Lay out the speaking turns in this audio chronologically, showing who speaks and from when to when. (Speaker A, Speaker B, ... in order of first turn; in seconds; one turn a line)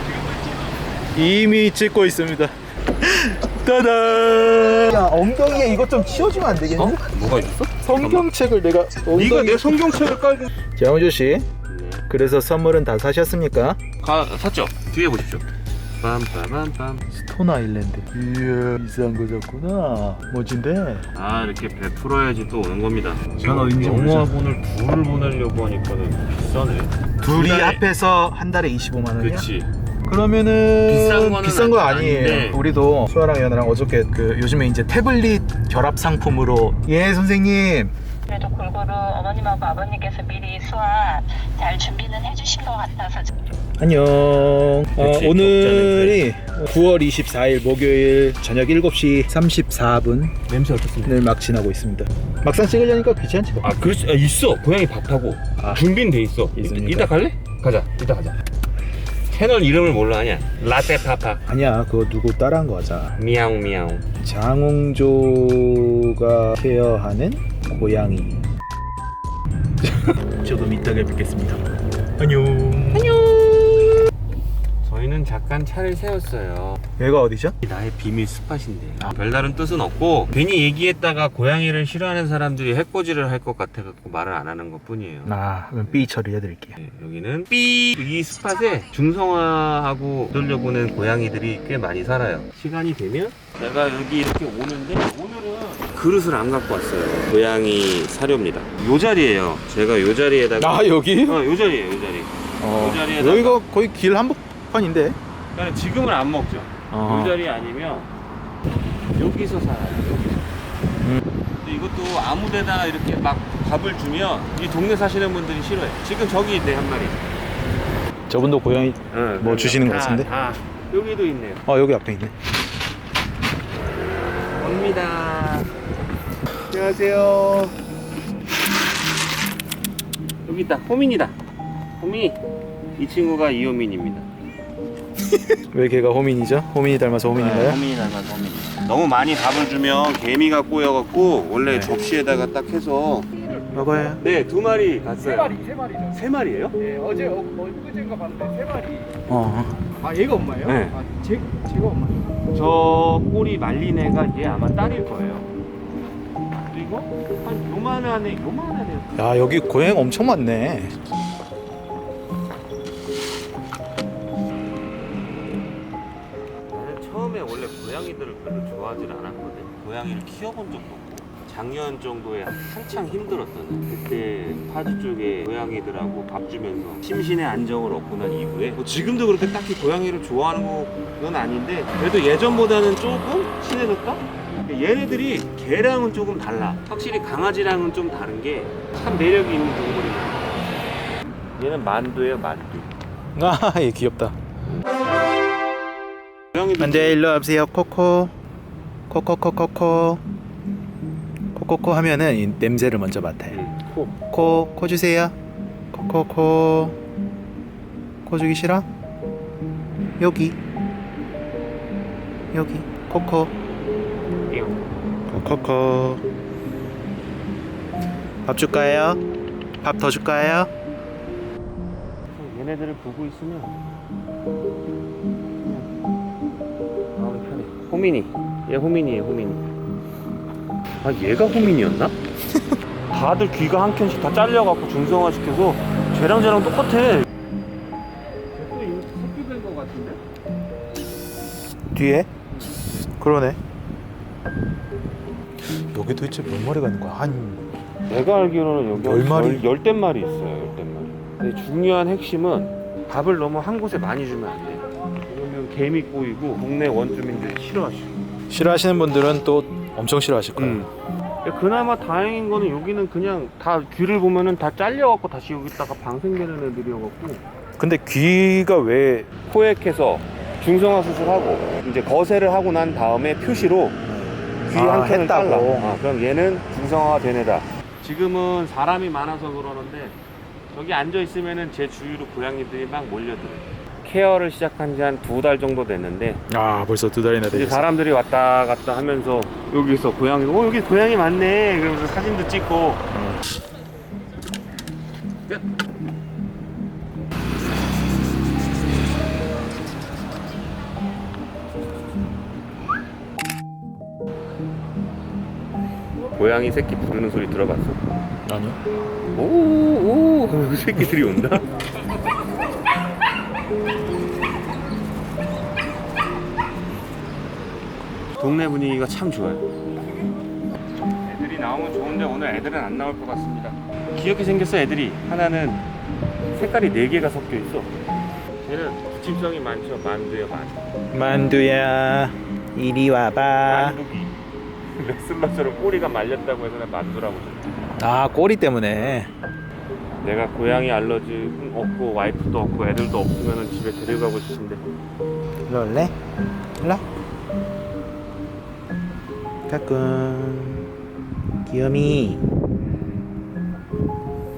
Speaker A: 1.1-7.1
Speaker B: 6.7-8.2
Speaker A: 7.8-10.1
Speaker B: 9.1-10.5
Speaker A: 10.8-11.5
Speaker B: 11.7-12.1
Speaker A: 12.1-13.8
Speaker B: 14.0-15.4
Speaker B: 16.0-17.1
Speaker A: 17.1-21.1
Speaker B: 21.1-27.8
Speaker A: 23.4-24.3
Speaker A: 27.2-29.5
Speaker B: 29.2-29.7
Speaker A: 30.1-37.9
Speaker B: 30.8-32.6
Speaker C: 38.3-43.3
Speaker A: 43.8-50.3
Speaker B: 45.0-46.2
Speaker B: 50.5-51.2
Speaker A: 51.0-53.7
Speaker B: 53.6-58.3
Speaker A: 56.5-57.1
Speaker B: 59.3-61.4
Speaker A: 61.5-63.1
Speaker B: 63.1-64.0
Speaker A: 64.2-68.4
Speaker A: 69.8-71.6
Speaker A: 72.2-73.2
Speaker B: 72.9-74.0
Speaker B: 74.8-76.8
Speaker A: 77.0-77.5
Speaker B: 77.6-86.0
Speaker A: 85.2-86.8
Speaker B: 86.8-103.6
Speaker A: 100.6-101.4
Speaker A: 102.6-105.2
Speaker B: 105.5-108.1
Speaker A: 106.9-107.4
Speaker B: 109.1-110.4
Speaker B: 111.6-117.2
Speaker A: 118.3-120.3
Speaker B: 119.1-121.6
Speaker A: 121.7-122.3
Speaker B: 124.6-125.7
Speaker B: 126.7-127.7
Speaker B: 130.4-131.3
Speaker B: 132.0-132.4
Speaker B: 133.0-134.3
Speaker A: 135.7-137.8
Speaker B: 137.3-143.3
Speaker A: 141.7-141.9
Speaker A: 143.7-144.2
Speaker B: 144.2-146.9
Speaker D: 147.0-149.0
Speaker A: 149.3-149.9
Speaker D: 150.1-152.2
Speaker B: 150.6-151.0
Speaker B: 152.5-155.5
Speaker B: 156.7-159.3
Speaker A: 159.2-160.9
Speaker B: 166.7-190.6
Speaker B: 191.6-192.9
Speaker A: 193.3-194.3
Speaker B: 196.5-197.2
Speaker A: 196.8-198.3
Speaker A: 199.1-200.2
Speaker A: 201.5-203.6
Speaker B: 203.5-204.1
Speaker A: 204.3-205.3
Speaker A: 205.9-207.0
Speaker A: 208.2-208.9
Speaker A: 210.2-210.6
Speaker A: 212.5-213.5
Speaker B: 214.5-214.8
Speaker A: 215.3-216.2
Speaker A: 218.4-219.2
Speaker A: 219.8-220.7
Speaker B: 222.3-223.8
Speaker B: 227.2-229.6
Speaker B: 231.0-232.1
Speaker B: 233.1-237.3
Speaker B: 238.5-240.2
Speaker A: 241.9-242.3
Speaker B: 242.5-242.8
Speaker A: 243.2-243.6
Speaker A: 245.9-247.7
Speaker B: 248.1-258.1
Speaker A: 249.0-249.7
Speaker A: 258.5-260.9
Speaker B: 260.6-260.9
Speaker B: 261.4-267.4
Speaker A: 267.8-269.3
Speaker B: 269.5-274.0
Speaker A: 274.1-275.9
Speaker B: 274.7-280.2
Speaker B: 280.7-286.4
Speaker A: 286.5-287.8
Speaker B: 287.5-293.1
Speaker A: 293.1-293.4
Speaker B: 306.4-308.0
Speaker A: 308.4-308.8
Speaker B: 309.3-311.7
Speaker B: 318.4-319.6
Speaker B: 321.2-325.8
Speaker B: 326.5-327.9
Speaker B: 328.6-330.8
Speaker A: 331.1-334.0
Speaker B: 333.6-334.3
Speaker B: 334.9-337.7
Speaker A: 338.0-339.3
Speaker B: 340.2-344.8
Speaker A: 345.7-346.1
Speaker A: 349.7-350.9
Speaker A: 351.6-352.4